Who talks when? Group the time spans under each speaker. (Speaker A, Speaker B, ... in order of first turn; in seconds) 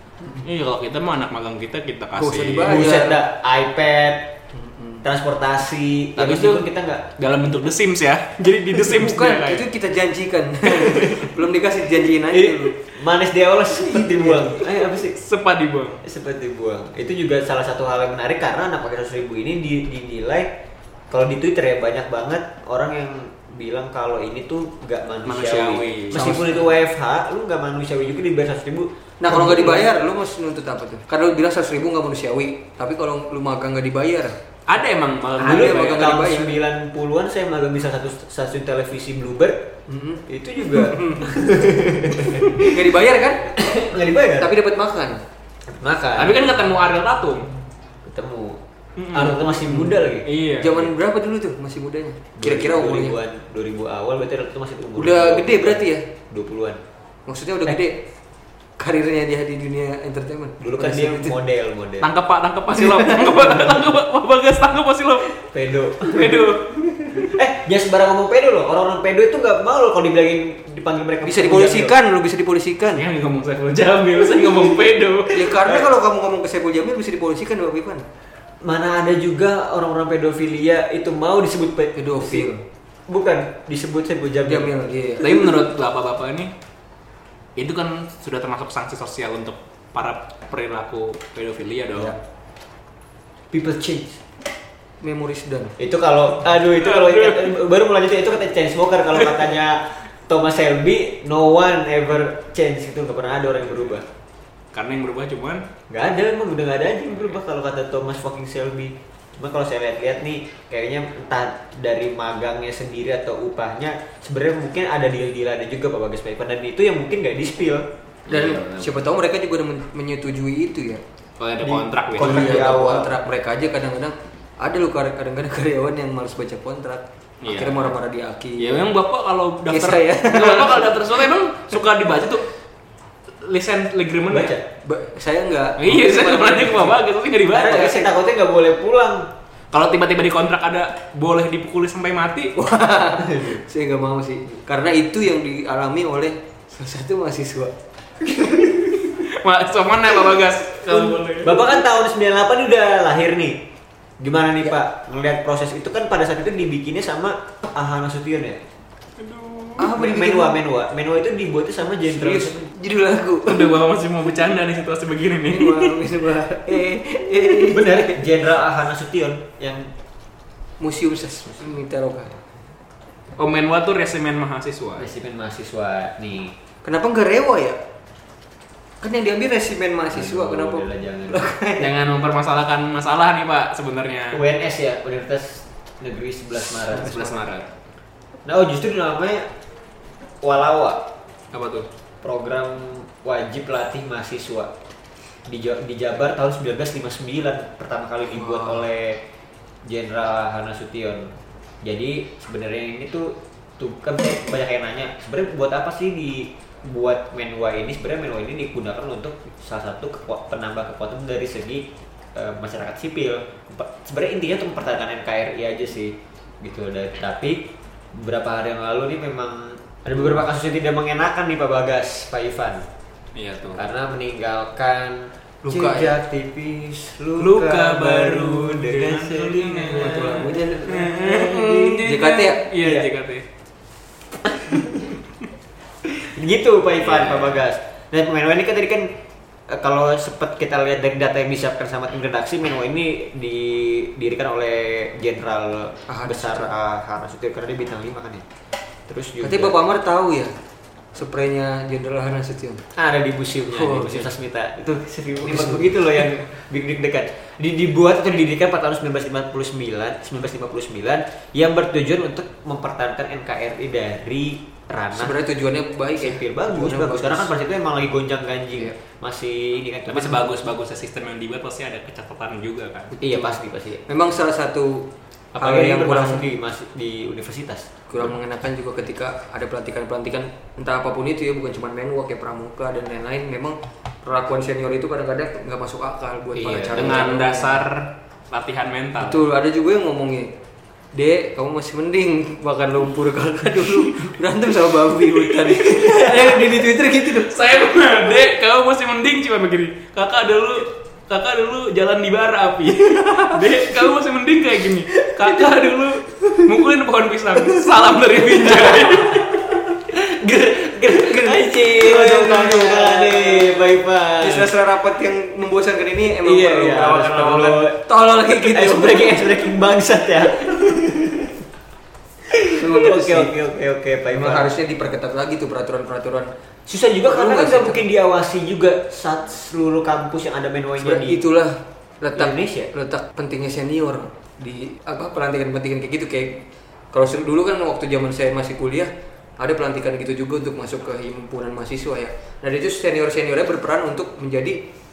Speaker A: 0.4-2.8, 6.2-9.7, 14.9-16.0, 25.2-26.7, 34.7-36.0, 46.1-47.5, 49.0-49.4, 50.2-50.8, 62.0-65.4, 66.0-67.2, 72.9-75.6, 85.2-86.5, 87.6-92.2, 96.8-97.5, 104.7-105.7, 118.3-119.0, 121.4-122.7, 127.4-127.9, 128.6-132.5, 133.4-134.6, 135.8-138.0, 139.7-142.5, 149.1-151.8, 159.2-159.9, 163.4-166.0, 173.4-175.1, 181.8-184.4, 186.7-187.7, 191.5-191.9, 223.3-223.8, 227.4-233.4, 237.0-237.7, 270.1-273.2, 286.9-289.5, 293.9-294.2, 295.4-296.7, 297.3-309.6
Speaker B: 2.1-3.2, 4.5-5.0, 8.7-12.7, 13.9-14.4, 29.2-34.4, 35.4-36.6, 39.9-43.5, 44.4-45.2, 49.6-50.0, 50.6-53.2, 55.0-56.0, 57.3-58.0, 58.8-61.4, 62.7-63.8, 71.2-73.0, 75.3-78.0, 81.9-82.6, 84.5-85.4, 95.0-95.8, 118.3-121.0, 122.2-128.9, 129.7-131.3, 134.8-137.0, 142.6-147.7, 159.8-160.6, 162.1-163.8, 165.5-168.1, 170.8-172.4, 176.8-177.8, 179.0-181.9, 187.0-187.3, 198.4-198.8, 225.6-226.2, 229.9-232.7, 246.1-246.7, 249.4-250.5, 251.1-252.8, 253.7-254.3, 255.4-256.0, 265.1-267.5, 274.1-276.4, 278.1-287.9, 289.2-290.5, 291.1-297.6, 311.1-319.7, 322.6-323.5, 324.3-326.5, 327.2-328.0, 331.0-344.8
Speaker C: 2.6-4.3, 5.0-7.1, 10.7-11.3, 12.3-15.2, 16.0-20.5, 21.1-29.9, 35.4-39.6, 40.3-42.8, 43.5-44.5, 45.7-46.6, 48.0-48.6, 49.1-50.9, 52.4-56.8, 60.6-62.1, 65.4-66.6, 67.2-72.0, 75.6-75.9, 78.6-82.5, 83.1-84.7, 93.5-94.2, 95.8-104.0, 105.9-117.9, 121.6-123.2, 134.3-134.6, 137.5-139.3, 143.2-143.6, 148.3-149.0, 150.9-153.6, 154.2-158.6, 159.9-162.7, 167.5-169.9, 175.0-176.5, 180.1-181.6, 184.3-187.3, 188.4-189.5, 190.4-191.0, 192.2-194.7, 195.5-199.2, 199.8-222.8, 223.7-232.0, 232.8-233.1, 234.5-235.2, 236.0-239.1, 239.7-248.4, 249.1-249.8, 252.9-265.4, 266.1-270.4, 273.2-274.0, 275.5-277.9, 286.5-287.3, 308.8-314.7, 316.4-321.6, 322.5-324.8, 326.9-331.4, 332.4-332.9